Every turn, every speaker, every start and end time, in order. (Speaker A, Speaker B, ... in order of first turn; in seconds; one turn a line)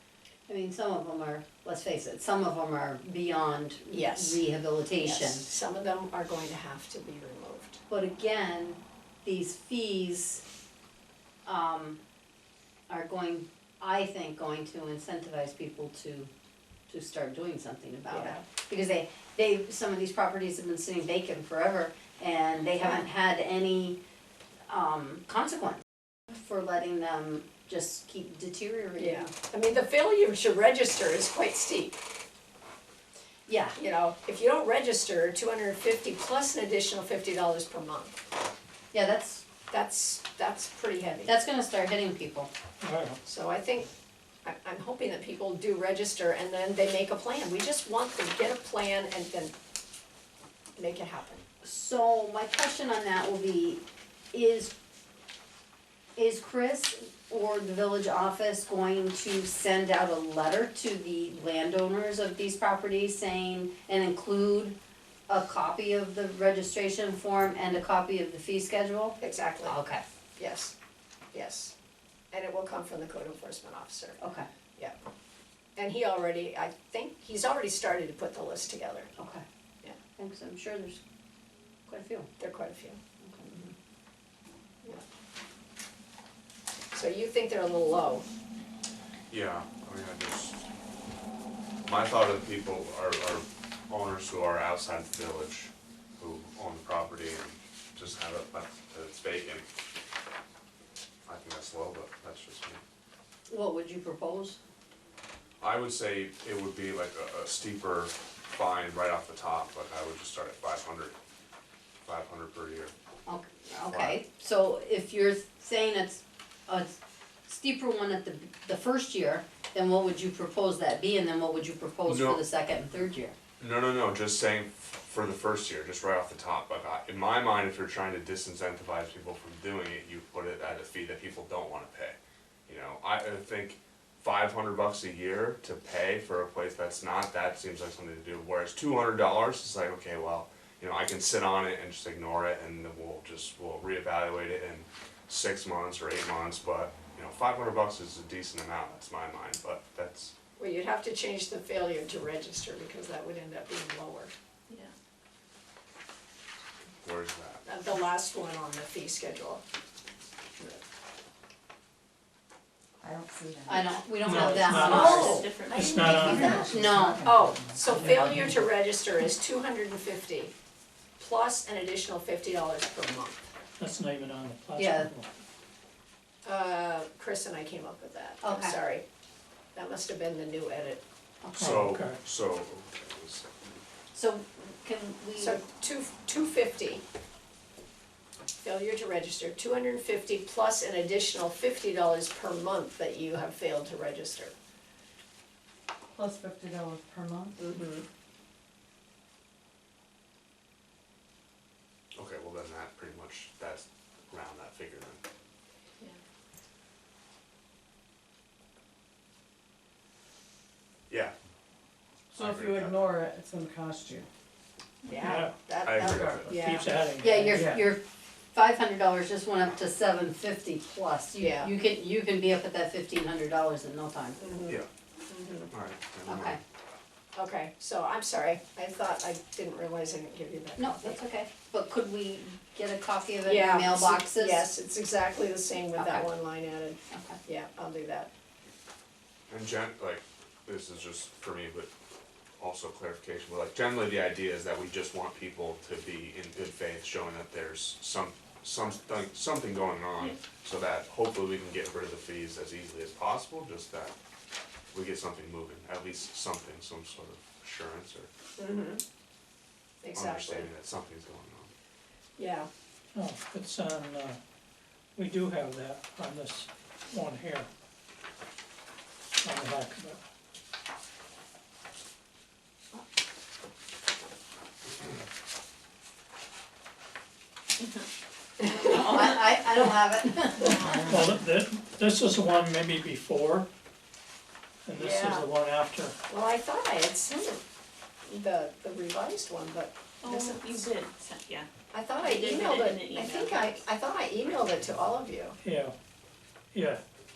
Speaker A: 0.5-5.5
Speaker B: 3.9-4.4
Speaker B: 5.0-7.8
Speaker A: 7.9-10.4
Speaker A: 11.4-12.0
Speaker A: 12.9-16.3
Speaker A: 16.9-24.0
Speaker B: 18.1-18.4
Speaker A: 24.7-29.3
Speaker B: 29.0-32.0
Speaker A: 33.5-33.8
Speaker B: 33.8-38.2
Speaker A: 38.9-39.4
Speaker B: 39.7-41.3
Speaker A: 41.2-42.5
Speaker C: 42.8-43.2
Speaker B: 43.2-43.9
Speaker B: 44.4-49.5
Speaker B: 50.8-51.4
Speaker A: 51.6-53.8
Speaker A: 54.3-54.7
Speaker A: 56.1-64.8
Speaker A: 65.3-70.0
Speaker B: 69.2-69.7
Speaker B: 70.3-70.7
Speaker B: 71.3-71.7
Speaker B: 72.3-74.2
Speaker A: 74.2-74.5
Speaker B: 75.8-79.1
Speaker A: 79.2-79.4
Speaker A: 80.2-81.0
Speaker A: 81.9-82.3
Speaker B: 82.4-83.0
Speaker A: 83.2-83.7
Speaker B: 86.9-88.2
Speaker D: 89.3-90.6
Speaker D: 91.8-99.7
Speaker D: 101.2-102.8
Speaker A: 103.5-104.6
Speaker D: 105.6-111.2
Speaker D: 112.0-112.9
Speaker A: 113.2-117.0
Speaker D: 113.8-114.2
Speaker A: 117.5-123.3
Speaker D: 122.0-122.4
Speaker D: 123.6-150.3
Speaker B: 150.6-154.3
Speaker E: 154.7-154.9
Speaker D: 157.0-157.6
Speaker B: 157.6-159.6
Speaker F: 163.0-163.9
Speaker A: 163.7-165.5
Speaker C: 164.2-166.9
Speaker B: 164.7-165.4
Speaker E: 164.7-166.8
Speaker A: 166.1-167.2
Speaker B: 166.2-166.6
Speaker F: 166.7-168.4
Speaker B: 167.2-170.5
Speaker C: 167.9-168.5
Speaker B: 171.2-173.5
Speaker C: 173.8-175.3
Speaker A: 174.8-175.1
Speaker B: 176.4-179.0
Speaker A: 178.4-178.7
Speaker B: 179.7-181.0
Speaker A: 181.4-181.8
Speaker C: 181.5-182.2
Speaker D: 181.6-183.5
Speaker A: 184.1-185.6
Speaker B: 185.4-187.0
Speaker B: 188.6-194.5
Speaker F: 196.1-197.7
Speaker B: 197.6-198.1
Speaker D: 202.1-205.2
Speaker F: 212.3-214.3
Speaker D: 212.3-213.1
Speaker B: 215.1-216.9
Speaker C: 215.1-215.6
Speaker D: 215.8-216.7
Speaker F: 215.9-216.7
Speaker C: 216.5-217.6
Speaker A: 217.2-224.4
Speaker F: 217.4-217.9
Speaker B: 221.4-221.7
Speaker B: 224.4-225.7
Speaker D: 225.7-226.6
Speaker A: 226.2-226.6
Speaker B: 227.3-231.2
Speaker A: 230.8-234.7
Speaker B: 233.4-238.3
Speaker A: 235.9-236.2
Speaker A: 237.1-237.4
Speaker D: 239.5-241.9
Speaker D: 242.6-254.1
Speaker D: 254.9-258.3
Speaker B: 258.6-259.0
Speaker B: 260.0-260.7
Speaker D: 260.1-261.7
Speaker B: 262.4-262.7
Speaker C: 263.1-264.4
Speaker C: 265.1-267.7
Speaker C: 269.4-270.2
Speaker A: 278.6-281.0
Speaker E: 278.8-279.2
Speaker E: 280.6-281.1
Speaker C: 280.9-283.7
Speaker C: 284.8-286.1
Speaker B: 284.9-285.4
Speaker B: 286.3-287.6
Speaker B: 288.2-290.9
Speaker E: 290.2-293.8
Speaker B: 291.9-295.6
Speaker C: 295.6-295.9
Speaker C: 296.7-297.0